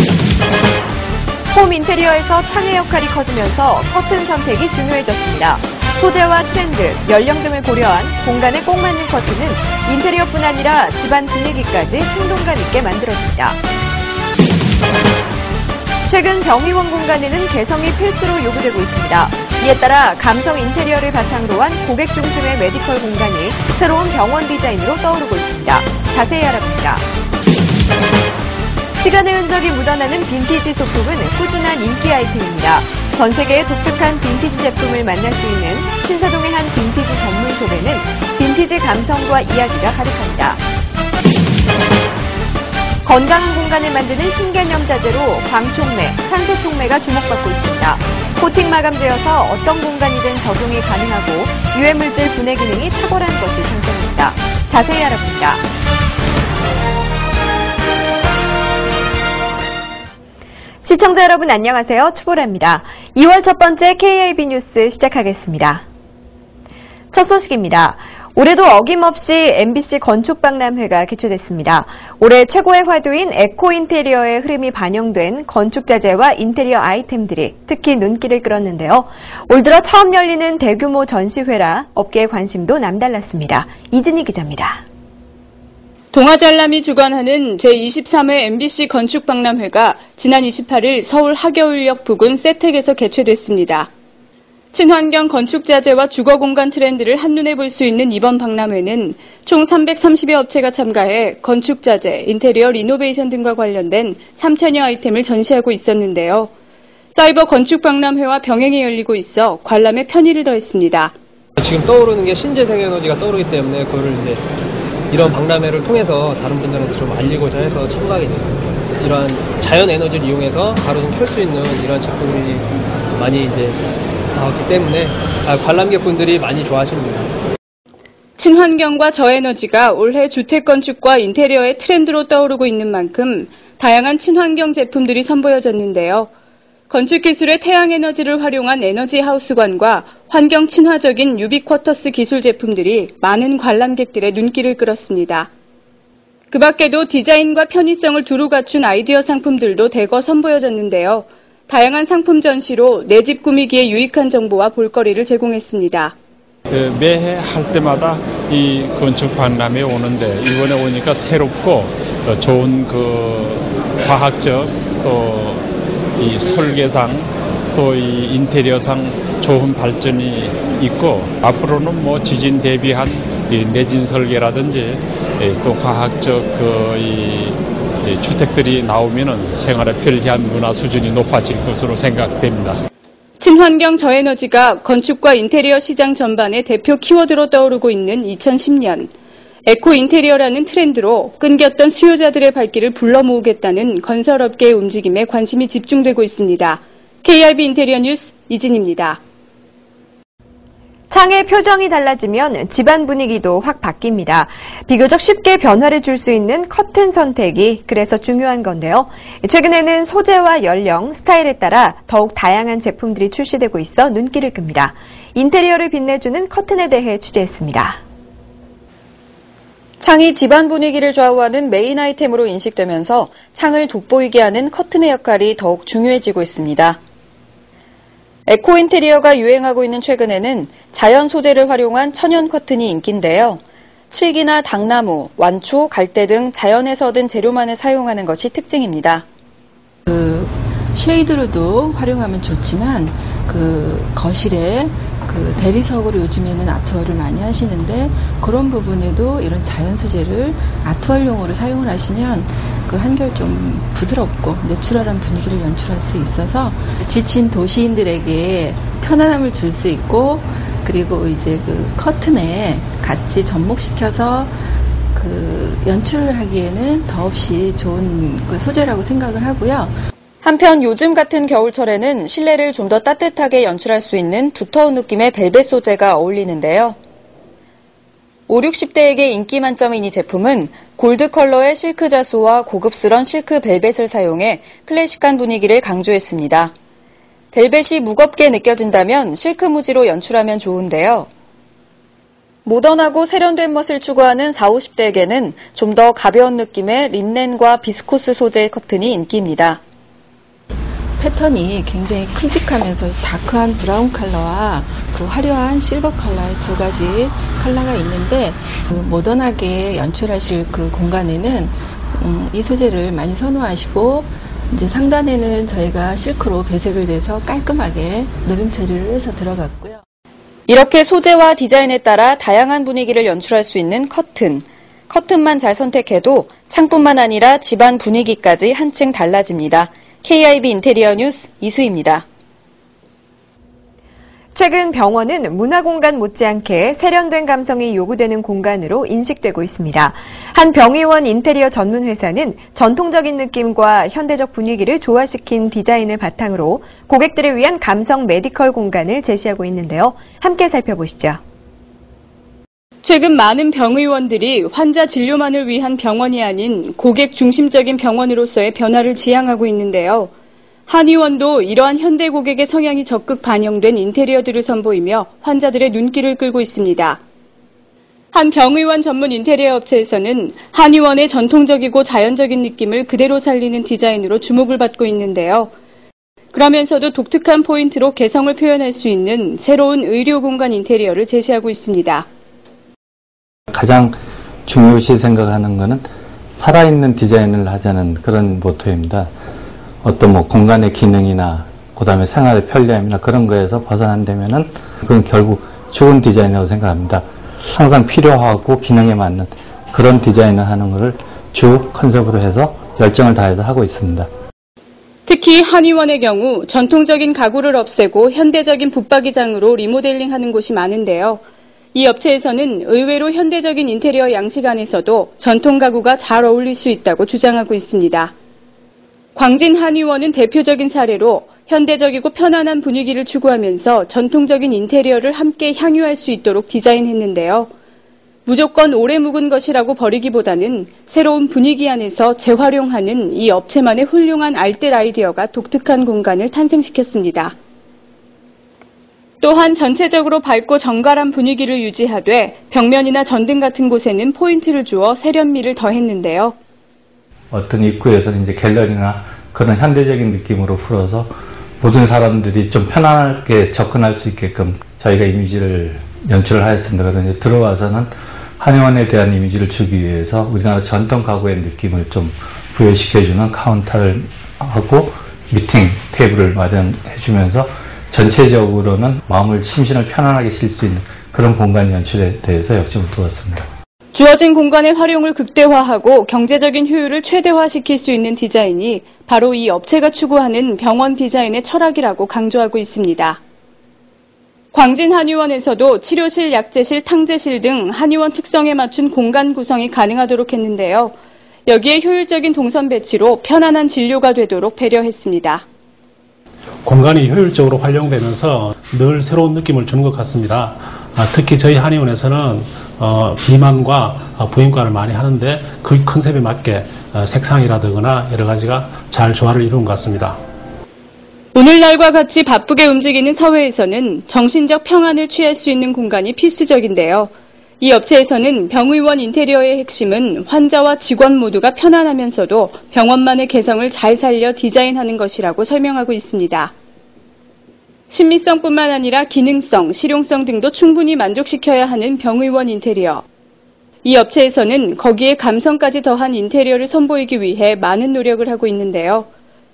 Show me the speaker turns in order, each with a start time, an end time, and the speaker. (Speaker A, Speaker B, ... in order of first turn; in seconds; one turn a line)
Speaker A: 1.5-13.6
Speaker A: 16.1-27.1
Speaker A: 29.0-40.6
Speaker A: 43.0-55.7
Speaker A: 60.8-65.8
Speaker A: 67.1-84.8
Speaker B: 86.1-93.9
Speaker B: 94.7-106.5
Speaker B: 107.2-111.1
Speaker C: 111.6-114.4
Speaker C: 115.1-123.8
Speaker C: 124.3-127.3
Speaker B: 128.4-136.3
Speaker B: 136.9-145.5
Speaker B: 146.5-156.1
Speaker D: 156.7-165.6
Speaker D: 166.2-182.8
Speaker B: 183.4-189.1
Speaker B: 189.7-199.2
Speaker A: 201.1-218.0
Speaker E: 220.0-227.0
Speaker E: 228.5-239.2
Speaker F: 240.1-264.6
Speaker F: 265.1-269.9
Speaker E: 270.4-276.9
Speaker E: 278.5-286.7
Speaker E: 287.5-291.3
Speaker E: 292.6-299.8
Speaker F: 301.2-320.0
Speaker E: 320.7-332.2
Speaker A: 334.5-351.4
Speaker B: 353.0-360.3
Speaker B: 360.9-367.2
Speaker B: 368.3-375.7
Speaker B: 376.5-382.2
Speaker G: 383.7-386.1
Speaker G: 386.6-389.3
Speaker G: 390.0-404.3
Speaker B: 405.3-411.4
Speaker B: 411.9-418.3
Speaker B: 419.4-427.7
Speaker B: 428.4-437.5
Speaker B: 439.4-446.5
Speaker G: 447.5-473.7
Speaker B: 474.1-483.4
Speaker B: 484.7-491.1
Speaker B: 491.7-495.6
Speaker H: 496.8-510.4
Speaker B: 511.5-526.7
Speaker B: 528.1-533.2
Speaker B: 534.0-539.3